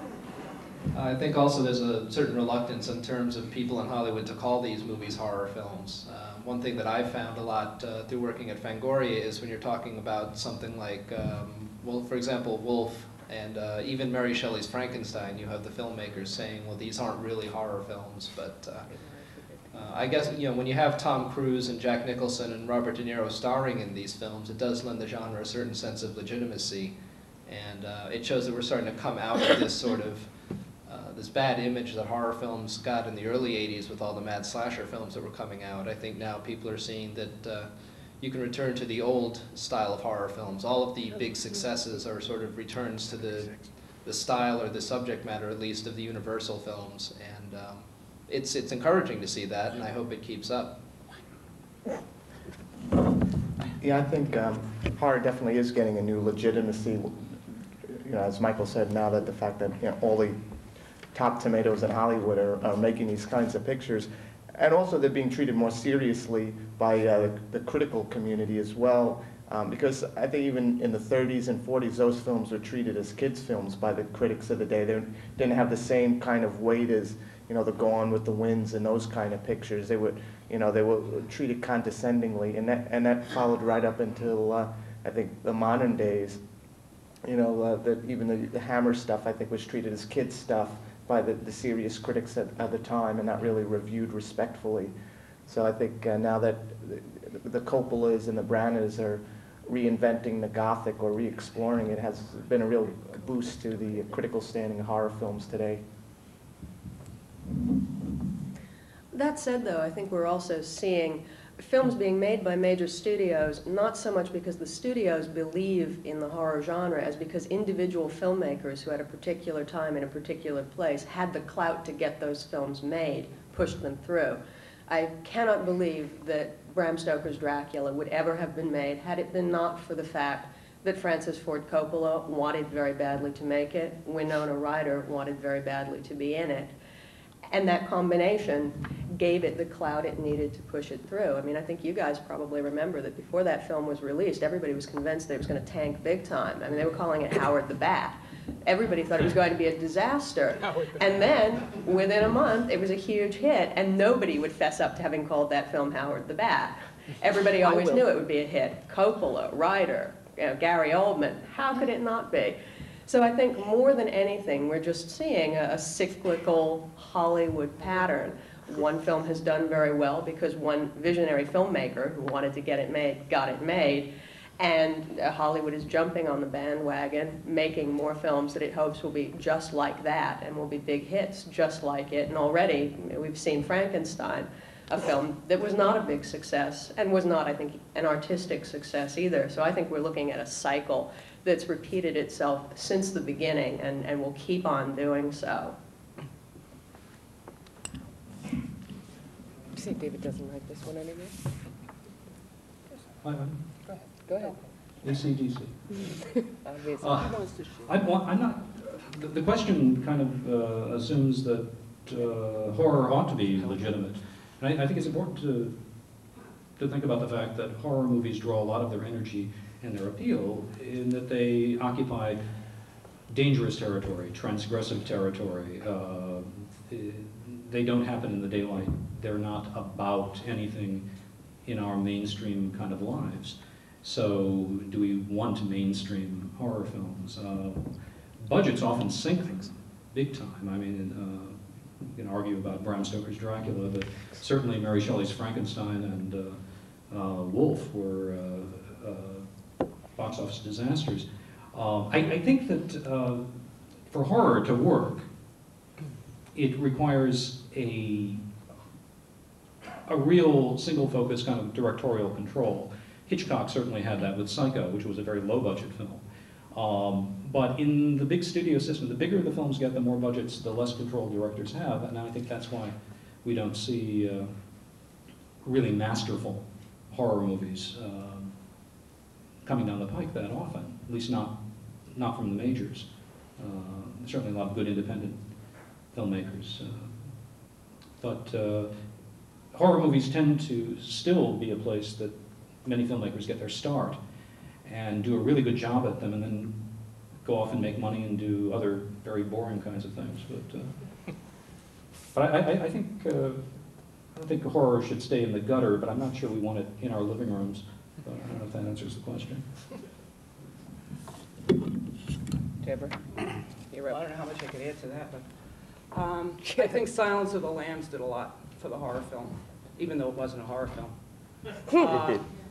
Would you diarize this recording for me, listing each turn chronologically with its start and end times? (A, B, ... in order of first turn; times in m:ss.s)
0:00.9-0:19.0 A
0:18.9-0:19.6 B
0:19.7-0:30.3 A
0:30.8-0:50.8 A
0:53.8-1:00.4 C
1:01.1-1:26.4 C
1:27.2-1:34.9 C
1:35.4-1:45.8 C
1:49.1-2:16.7 D
2:17.5-3:15.8 D
2:37.6-2:38.0 B
3:19.7-3:21.4 B
3:23.2-3:23.6 E
3:24.2-3:24.6 B
3:25.0-3:26.2 E
3:26.5-3:27.3 B
3:27.0-3:35.8 E
3:27.2-3:27.9 F
3:36.8-3:42.4 E
3:43.3-3:51.0 E
3:51.6-3:57.9 E
3:58.4-4:09.5 E
4:10.1-4:15.3 E
4:16.5-4:18.4 E
4:20.0-4:34.5 E
4:35.6-4:38.5 E
4:39.6-4:45.4 E
4:46.1-4:47.6 E
4:48.2-4:49.0 E
4:49.7-4:54.2 E
4:54.8-4:56.8 E
4:57.4-5:01.0 E
5:02.3-5:03.6 E
5:04.3-5:09.6 E
5:12.8-5:13.3 B
5:13.9-5:14.2 B
5:14.0-5:21.2 F
5:16.6-5:17.0 B
5:21.7-5:22.5 F